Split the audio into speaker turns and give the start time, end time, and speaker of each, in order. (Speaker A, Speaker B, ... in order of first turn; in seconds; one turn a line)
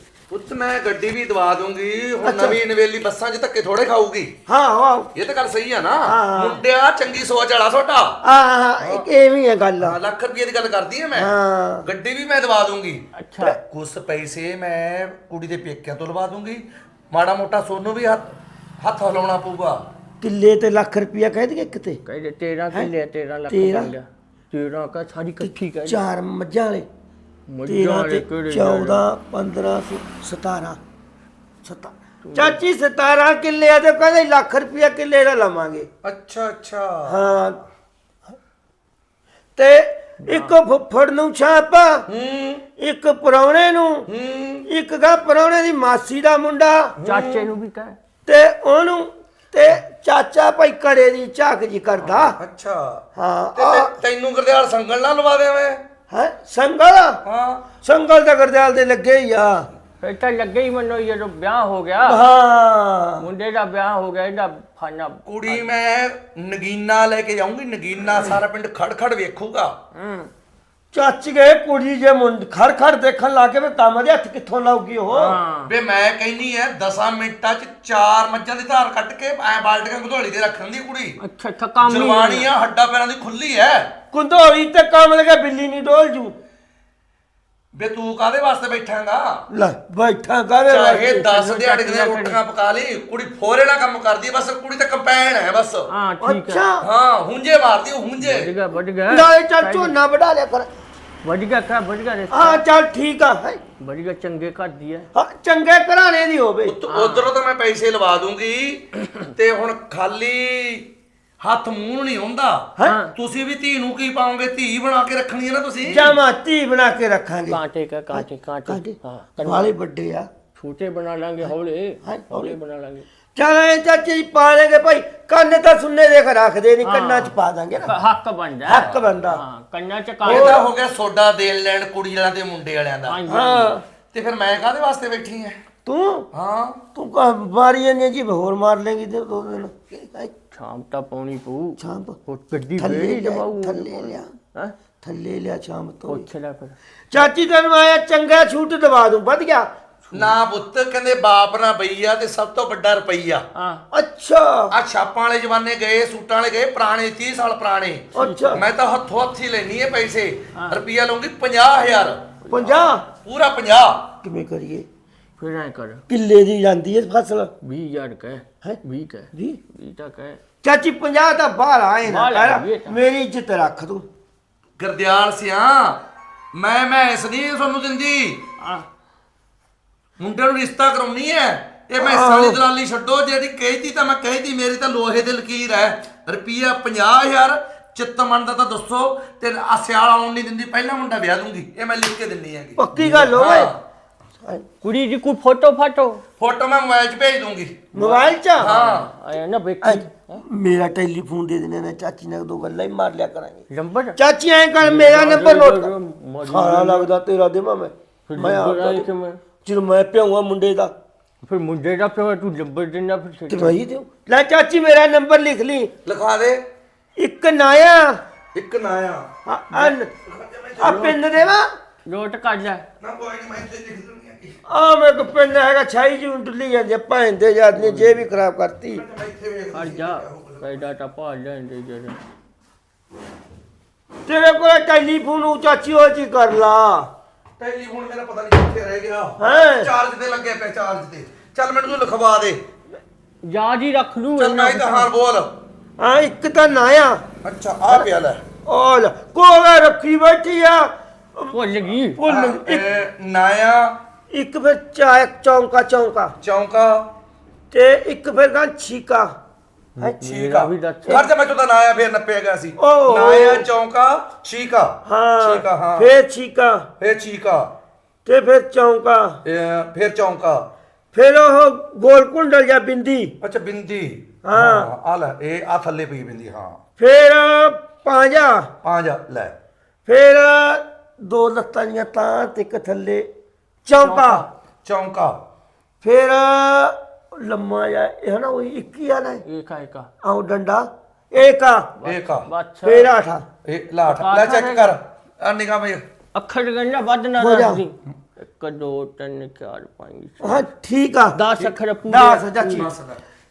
Speaker A: 0.3-4.4
Speaker B: 2.2-2.6
Speaker B: 4.5-5.1
Speaker A: 5.1-8.2
Speaker B: 6.0-6.6
Speaker B: 8.2-10.0
Speaker A: 8.8-9.1
Speaker A: 9.8-13.1
Speaker B: 11.2-11.9
Speaker C: 13.2-13.6
Speaker A: 13.7-19.8
Speaker B: 20.2-22.0
Speaker C: 22.1-26.0
Speaker B: 23.5-23.9
Speaker B: 25.4-26.9
Speaker C: 27.5-29.0
Speaker B: 27.7-30.8
Speaker B: 31.6-35.9
Speaker C: 32.2-32.6
Speaker A: 36.0-37.3
Speaker B: 37.1-37.6
Speaker B: 39.6-42.1
Speaker C: 40.2-40.5
Speaker A: 42.1-42.6
Speaker B: 42.8-44.1
Speaker A: 44.1-44.7
Speaker B: 44.6-47.0
Speaker A: 47.0-47.5
Speaker C: 47.0-48.0
Speaker B: 48.3-52.4
Speaker C: 52.0-52.3
Speaker A: 52.4-53.0
Speaker B: 53.1-54.0
Speaker A: 53.6-55.8
Speaker B: 56.1-57.2
Speaker A: 57.2-57.7
Speaker B: 57.8-59.7
Speaker C: 60.0-62.2
Speaker B: 62.0-63.3
Speaker C: 63.2-65.7
Speaker A: 65.2-69.8
Speaker C: 70.0-70.3
Speaker B: 70.9-75.4
Speaker C: 75.1-75.7
Speaker A: 75.3-81.2
Speaker C: 81.2-82.5
Speaker A: 81.8-83.9
Speaker B: 84.1-86.3
Speaker A: 87.7-89.5
Speaker B: 89.5-91.2
Speaker A: 90.7-95.9
Speaker C: 91.0-92.4
Speaker C: 95.9-96.7
Speaker B: 96.2-96.9
Speaker A: 96.8-98.5
Speaker C: 98.2-100.0
Speaker B: 99.1-100.7
Speaker C: 101.2-102.6
Speaker B: 102.3-103.6
Speaker C: 103.8-105.1
Speaker B: 105.2-106.8
Speaker A: 106.7-110.9
Speaker C: 106.9-107.3
Speaker A: 111.4-116.1
Speaker C: 112.8-113.1
Speaker B: 115.9-117.6
Speaker C: 117.5-119.7
Speaker B: 118.1-120.3
Speaker C: 120.5-123.1
Speaker B: 122.0-122.6
Speaker B: 123.4-128.0
Speaker C: 126.8-130.6
Speaker B: 128.7-129.4
Speaker B: 130.2-130.7
Speaker A: 130.2-133.2
Speaker C: 133.1-133.8
Speaker B: 133.3-133.8
Speaker A: 134.1-135.6
Speaker B: 135.9-136.3
Speaker A: 136.3-136.8
Speaker B: 136.9-140.3
Speaker C: 140.5-144.8
Speaker B: 141.8-142.2
Speaker B: 142.8-144.3
Speaker B: 145.0-146.3
Speaker C: 146.1-146.8
Speaker B: 147.1-149.7
Speaker A: 150.1-153.4
Speaker C: 153.6-153.8
Speaker B: 153.9-154.8
Speaker A: 154.7-162.2
Speaker B: 158.2-158.6
Speaker C: 158.2-158.6
Speaker C: 160.6-160.8
Speaker C: 162.4-162.8
Speaker B: 162.5-163.1
Speaker A: 163.2-164.1
Speaker B: 164.2-164.8
Speaker C: 165.4-166.0
Speaker B: 166.1-167.5
Speaker C: 167.6-170.4
Speaker B: 169.3-169.6
Speaker B: 170.6-174.1
Speaker C: 172.1-173.0
Speaker A: 174.8-178.4
Speaker C: 178.6-178.8
Speaker A: 180.2-192.8
Speaker B: 182.0-182.6
Speaker B: 192.8-193.7
Speaker C: 193.0-193.3
Speaker A: 193.3-193.8
Speaker C: 194.8-196.2
Speaker A: 196.4-197.9
Speaker B: 197.9-198.7
Speaker C: 198.0-200.4
Speaker A: 198.6-199.1
Speaker B: 199.8-203.7
Speaker C: 203.7-204.2
Speaker B: 204.2-205.9
Speaker C: 204.8-207.1
Speaker B: 206.4-209.1
Speaker C: 208.3-209.4
Speaker B: 209.7-210.9
Speaker C: 211.4-213.8
Speaker B: 213.5-215.9
Speaker A: 216.1-216.6
Speaker B: 217.2-218.2
Speaker A: 218.5-219.3
Speaker B: 219.5-220.1
Speaker A: 220.2-221.0
Speaker B: 220.8-221.7
Speaker C: 220.8-221.2
Speaker C: 222.1-222.8
Speaker A: 223.0-224.6
Speaker B: 224.7-229.0
Speaker C: 227.7-228.3
Speaker A: 229.0-230.8
Speaker C: 229.7-232.2
Speaker B: 234.3-237.1
Speaker A: 237.6-242.6
Speaker B: 239.4-239.9
Speaker C: 243.4-245.1
Speaker A: 244.4-245.6
Speaker B: 246.0-247.2
Speaker A: 247.4-248.4
Speaker B: 248.7-251.6
Speaker C: 251.5-252.2
Speaker B: 252.2-252.9
Speaker A: 252.2-254.0
Speaker B: 254.3-256.4
Speaker A: 256.4-257.1
Speaker B: 257.7-259.3
Speaker C: 260.0-261.3
Speaker A: 260.2-266.1
Speaker B: 262.8-263.7
Speaker B: 265.1-266.9
Speaker A: 267.0-267.7
Speaker B: 268.3-269.4
Speaker A: 269.4-270.7
Speaker B: 271.1-273.4
Speaker A: 273.4-276.8
Speaker B: 274.4-274.9
Speaker B: 277.0-278.7
Speaker A: 278.8-279.6
Speaker B: 280.1-283.3
Speaker B: 283.9-284.5
Speaker C: 284.0-284.5
Speaker A: 284.9-285.4
Speaker B: 286.0-289.4
Speaker C: 289.4-290.1
Speaker B: 290.2-291.9
Speaker C: 292.0-293.1
Speaker A: 292.1-292.5
Speaker B: 292.8-293.4
Speaker A: 293.6-296.0
Speaker C: 294.1-294.9
Speaker C: 296.3-300.7
Speaker B: 297.4-297.8
Speaker B: 300.4-301.4
Speaker C: 301.3-302.9
Speaker B: 302.1-302.9
Speaker A: 302.8-303.2